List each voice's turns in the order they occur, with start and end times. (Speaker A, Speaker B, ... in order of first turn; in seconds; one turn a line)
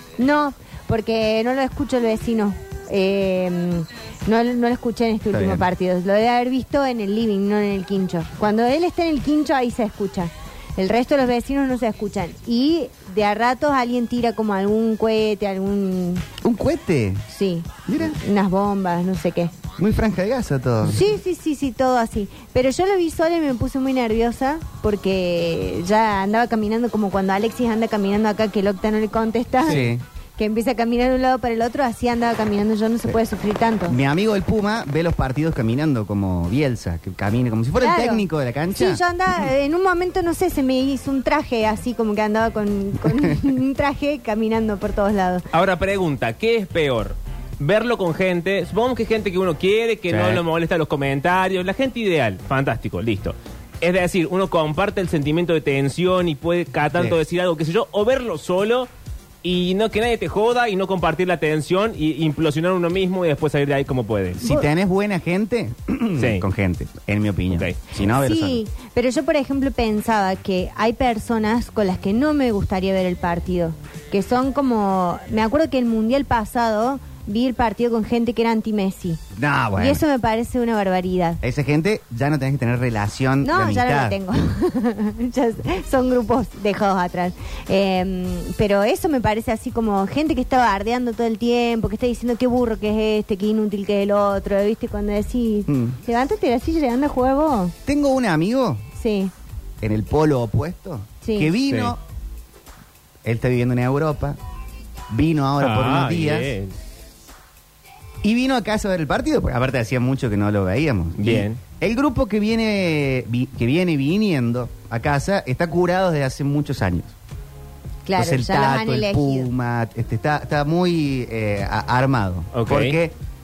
Speaker A: 0.2-16.2
Speaker B: 5.3-5.6
Speaker B: 16.4-17.2
Speaker A: 17.3-19.5
Speaker B: 17.9-18.1
Speaker B: 19.8-21.1
Speaker A: 20.8-29.9
Speaker B: 29.6-30.0
Speaker A: 30.4-34.0
Speaker B: 33.9-39.0
Speaker A: 37.8-45.5
Speaker C: 45.5-58.9
Speaker B: 50.1-50.4
Speaker C: 59.4-64.4
Speaker B: 64.4-68.6
Speaker C: 66.2-66.4
Speaker C: 67.5-67.8
Speaker A: 68.2-79.2
Speaker B: 79.3-80.0
Speaker A: 79.8-81.4
Speaker B: 81.4-84.2
Speaker A: 83.4-97.7
Speaker B: 95.7-96.0
Speaker B: 97.8-98.8
Speaker A: 99.0-99.3
Speaker B: 99.8-102.0
Speaker A: 101.2-101.5
Speaker C: 101.7-101.9
Speaker B: 103.2-104.4
Speaker B: 105.1-106.5
Speaker C: 105.6-106.7
Speaker B: 108.2-117.1
Speaker C: 111.2-111.6
Speaker A: 118.0-119.5
Speaker B: 118.2-123.2
Speaker C: 122.5-123.0